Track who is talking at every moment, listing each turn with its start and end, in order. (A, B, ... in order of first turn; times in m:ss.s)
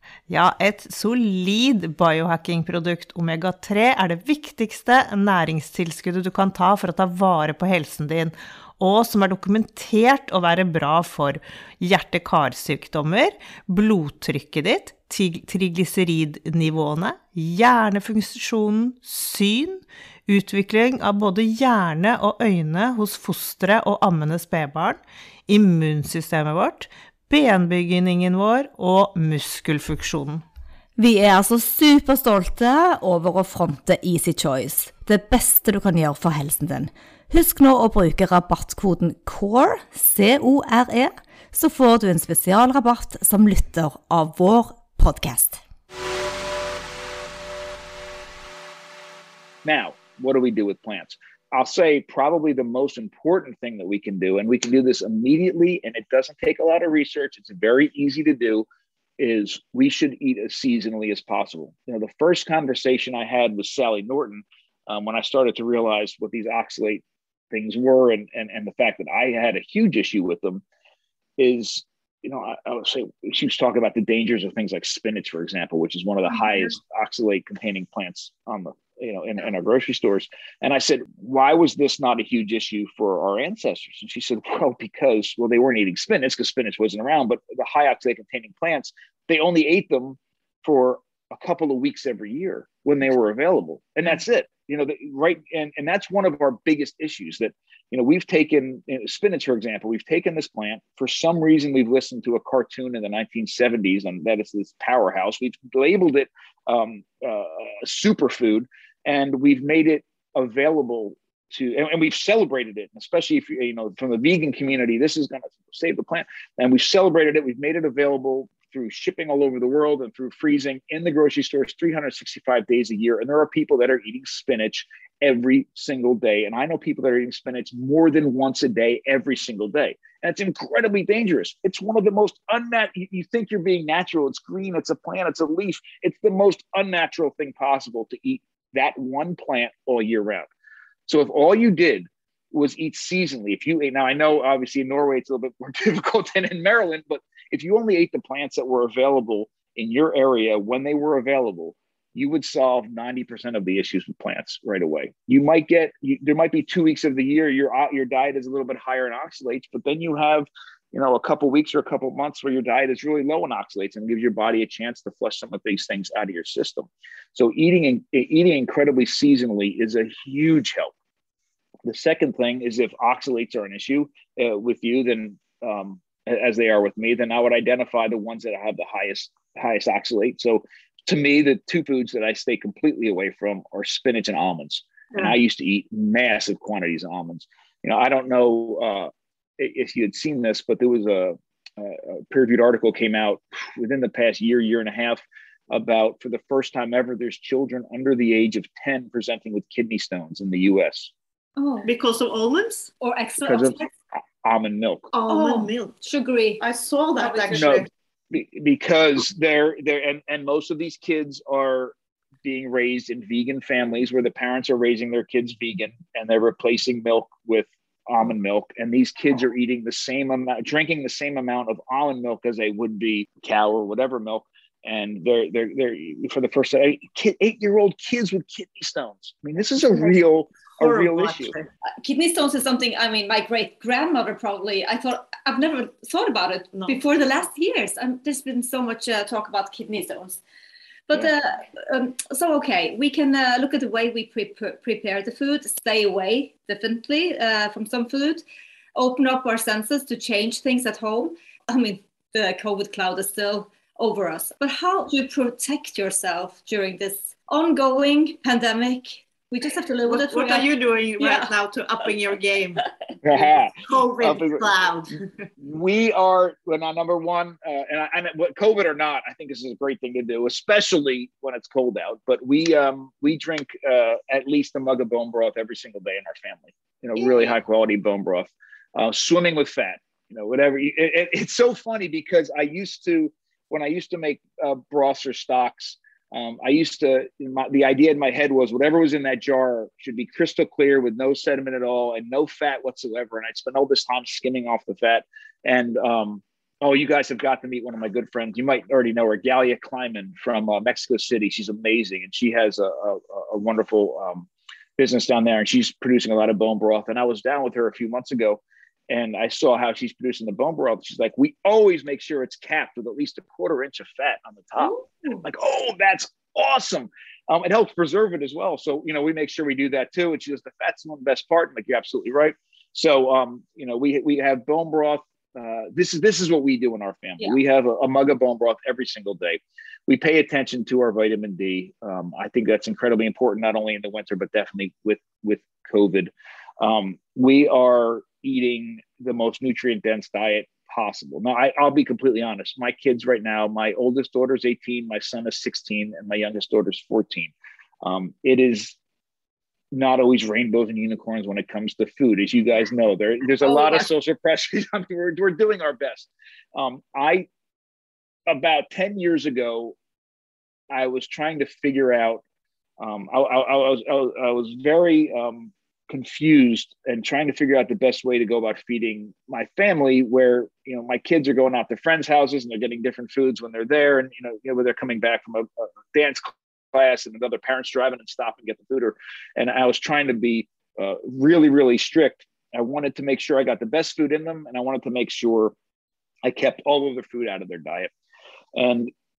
0:00.3-0:30.4 A
0:31.0-0:45.6 B
0:49.6-0:58.7 C
0:59.2-1:10.6 C
1:11.4-2:20.5 C
2:21.1-2:50.9 C
2:51.9-3:21.1 C
3:21.6-3:21.9 D
3:21.8-3:22.9 E
3:23.0-3:23.9 D
3:23.4-3:23.8 C
3:24.4-3:25.1 C
3:25.1-3:26.0 E
3:25.3-3:26.6 D
3:26.6-3:27.9 E
3:27.2-3:27.8 D
3:27.5-3:51.5 C
3:50.0-3:51.7 E
3:51.9-4:00.4 D
3:56.7-3:57.0 E
4:01.1-4:08.4 D
4:09.0-4:21.5 D
4:20.1-4:22.8 E
4:23.2-4:24.7 C
4:23.8-4:25.3 E
4:25.6-5:49.0 C
4:37.2-4:37.6 E
5:49.9-5:57.5 C
5:53.6-5:54.0 D
5:58.5-6:00.0 C
6:00.9-6:02.4 C
6:03.0-6:25.7 C
6:26.4-6:28.1 C
6:28.7-6:29.1 C